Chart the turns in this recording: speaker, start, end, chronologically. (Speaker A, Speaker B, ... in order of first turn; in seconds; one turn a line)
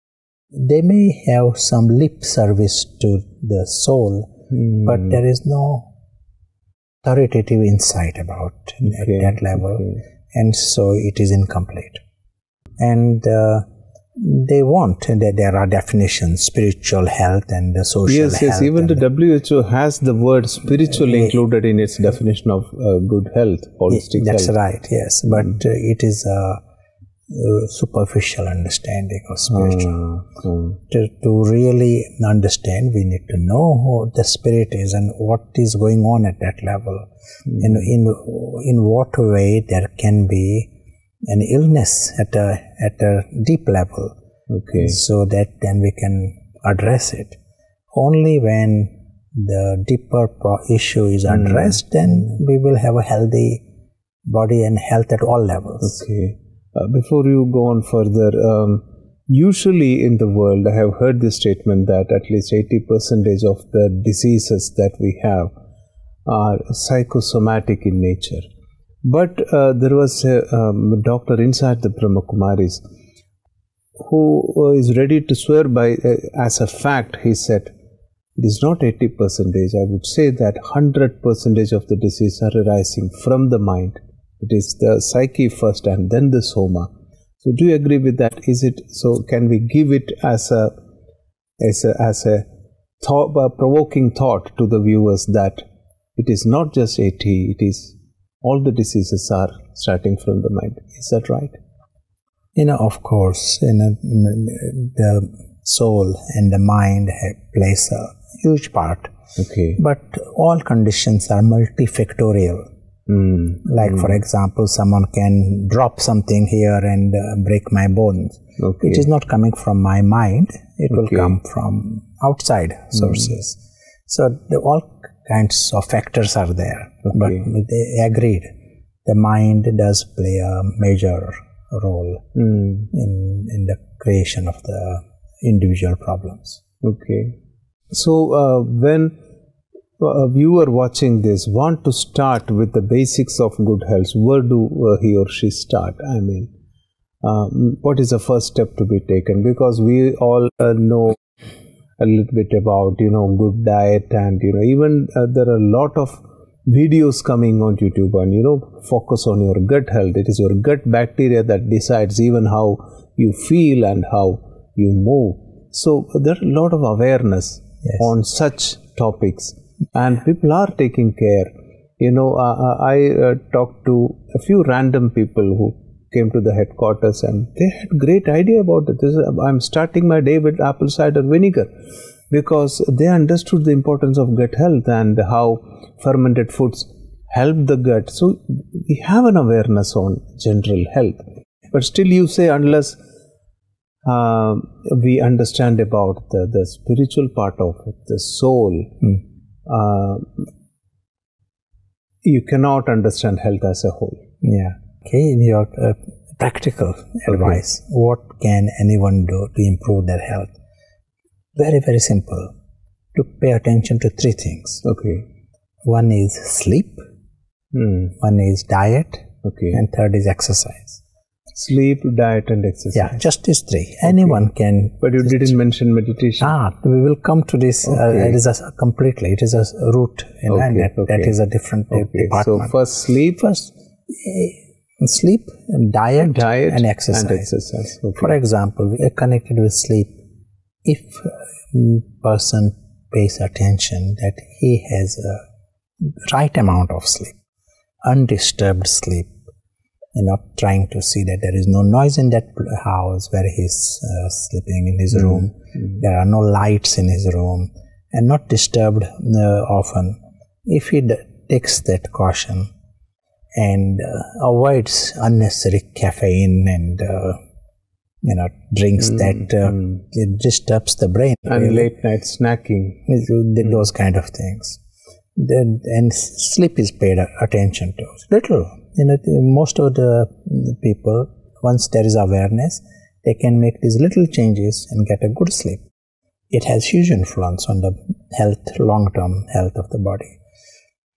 Speaker A: 0.5-4.3
Speaker B: 4.5-5.2
Speaker A: 4.8-5.9
Speaker A: 7.0-12.0
Speaker B: 8.8-10.0
Speaker A: 12.8-19.0
Speaker B: 18.1-24.5
Speaker A: 20.9-21.3
Speaker A: 23.9-26.6
Speaker A: 27.3-29.9
Speaker B: 29.5-30.8
Speaker A: 30.9-37.1
Speaker B: 37.5-37.8
Speaker A: 37.6-40.7
Speaker A: 41.2-44.1
Speaker B: 44.5-45.0
Speaker A: 44.7-47.4
Speaker A: 47.9-53.6
Speaker B: 51.3-51.8
Speaker A: 54.2-56.0
Speaker B: 55.8-65.5
Speaker B: 66.2-68.5
Speaker B: 69.0-72.8
Speaker B: 74.0-77.7
Speaker B: 78.4-90.8
Speaker B: 91.6-92.5
Speaker B: 93.0-95.6
Speaker B: 96.2-101.6
Speaker A: 102.5-109.1
Speaker B: 109.4-109.8
Speaker A: 109.8-112.7
Speaker B: 113.1-114.2
Speaker A: 113.6-128.5
Speaker B: 118.6-119.1
Speaker B: 120.9-121.3
Speaker B: 127.0-127.4
Speaker A: 129.0-132.2
Speaker B: 132.3-132.9
Speaker A: 132.9-136.6
Speaker B: 136.8-137.4
Speaker B: 137.9-139.1
Speaker B: 140.0-146.5
Speaker B: 147.2-151.2
Speaker B: 152.0-181.7
Speaker B: 182.3-193.0
Speaker B: 194.0-199.1
Speaker B: 199.7-200.5
Speaker B: 202.2-204.3
Speaker A: 204.4-210.6
Speaker B: 207.3-207.6
Speaker A: 211.5-212.5
Speaker A: 213.1-214.8
Speaker B: 214.8-215.3
Speaker A: 215.8-217.0
Speaker B: 217.7-218.1
Speaker A: 218.2-221.0
Speaker B: 219.4-219.8
Speaker B: 221.5-223.2
Speaker A: 222.9-225.6
Speaker B: 224.0-224.4
Speaker B: 225.0-226.6
Speaker A: 226.4-232.7
Speaker B: 227.8-228.4
Speaker B: 230.5-231.3
Speaker B: 231.9-233.7
Speaker A: 234.1-237.5
Speaker B: 236.2-238.3
Speaker A: 238.2-240.1
Speaker A: 240.8-245.4
Speaker A: 246.0-247.4
Speaker A: 248.0-249.4
Speaker A: 250.1-262.7
Speaker A: 263.6-267.4
Speaker A: 268.2-271.9
Speaker B: 269.2-270.0
Speaker B: 271.5-273.1
Speaker A: 273.1-274.8
Speaker A: 275.4-285.8
Speaker A: 286.5-290.4